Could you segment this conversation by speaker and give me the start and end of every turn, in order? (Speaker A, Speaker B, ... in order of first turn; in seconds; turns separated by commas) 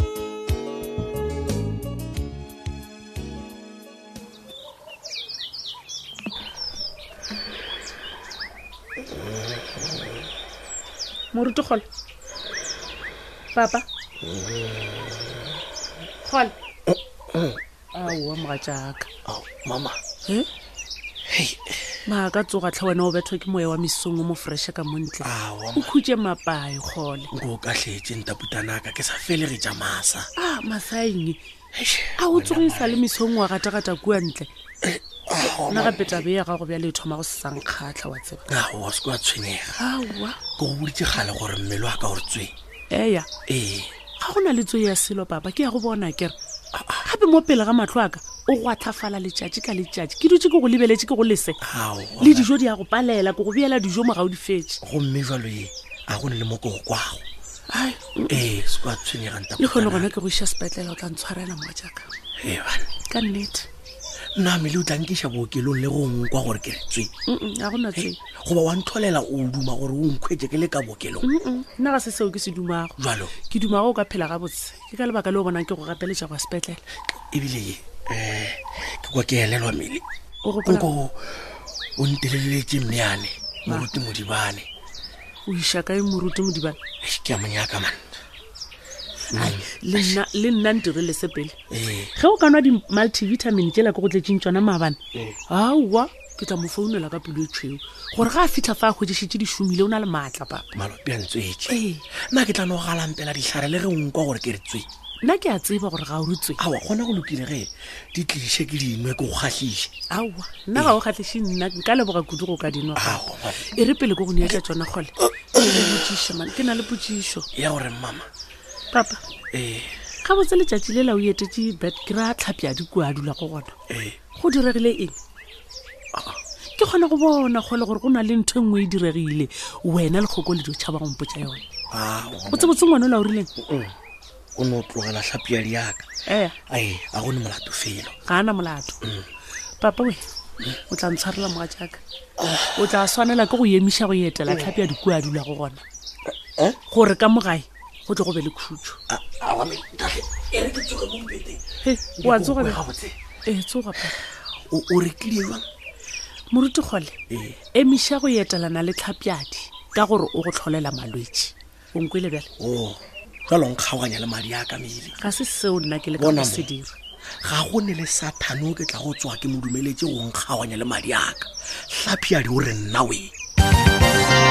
Speaker A: 9.1-9.8, Speaker B: 11.3-11.9, Speaker B: 13.5-13.8, Speaker A: 14.2-15.5, Speaker B: 16.2-16.6, Speaker A: 16.9-17.6, Speaker B: 17.9-19.1, Speaker A: 19.2-20.0, Speaker A: 21.3-22.0, Speaker B: 22.1-27.3, Speaker A: 25.2-25.9, Speaker A: 27.3-30.3, Speaker B: 30.4-31.4, Speaker A: 31.7-33.0, Speaker B: 32.2-34.5, Speaker A: 34.8-36.2, Speaker B: 35.5-38.5, Speaker A: 38.5-39.8, Speaker B: 39.8-40.4, Speaker A: 40.6-42.5, Speaker B: 42.9-43.3, Speaker A: 43.5-43.9, Speaker B: 44.2-46.4, Speaker A: 46.7-47.1, Speaker B: 47.0-51.6, Speaker A: 51.6-52.5, Speaker B: 52.2-54.8, Speaker A: 54.8-57.2, Speaker B: 57.7-58.5, Speaker A: 58.3-60.1, Speaker B: 59.6-62.0, Speaker A: 62.4-62.9, Speaker B: 63.1-63.7, Speaker A: 64.4-67.1, Speaker B: 67.3-68.2, Speaker A: 68.0-71.3, Speaker B: 71.2-73.0, Speaker A: 73.0-73.3, Speaker B: 73.5-76.8, Speaker A: 77.3-80.0, Speaker B: 80.5-80.9, Speaker A: 80.7-84.7, Speaker B: 83.7-83.9, Speaker B: 85.5-86.8, Speaker A: 87.0-88.2, Speaker A: 89.3-90.2, Speaker B: 89.3-91.5, Speaker A: 91.7-92.1, Speaker B: 92.2-95.0, Speaker A: 95.1-95.4, Speaker B: 95.5-100.7, Speaker A: 100.8-101.8, Speaker A: 102.3-104.9, Speaker B: 105.2-106.6, Speaker A: 106.6-109.9, Speaker B: 110.1-117.5, Speaker A: 113.0-113.7, Speaker A: 115.5-115.9, Speaker A: 117.5-118.3, Speaker B: 118.9-119.2, Speaker A: 119.5-120.0, Speaker B: 120.2-123.8, Speaker A: 123.9-124.2, Speaker B: 124.4-125.2, Speaker A: 126.1-126.4, Speaker B: 126.8-131.6, Speaker A: 131.9-132.7, Speaker B: 132.5-133.5, Speaker A: 133.6-133.9, Speaker A: 134.6-136.1, Speaker B: 136.3-136.6, Speaker A: 136.7-138.2, Speaker B: 138.2-139.0, Speaker B: 139.8-140.2, Speaker B: 140.9-142.0, Speaker A: 142.4-142.7, Speaker B: 142.7-145.8, Speaker B: 146.9-149.0, Speaker A: 149.1-151.6, Speaker B: 151.8-152.8, Speaker A: 152.2-153.2, Speaker B: 153.4-154.2, Speaker A: 154.7-155.7, Speaker B: 156.5-157.2, Speaker A: 157.3-157.6, Speaker B: 157.7-162.5, Speaker A: 162.6-165.2, Speaker B: 165.2-166.9, Speaker A: 166.2-166.7, Speaker A: 167.4-173.3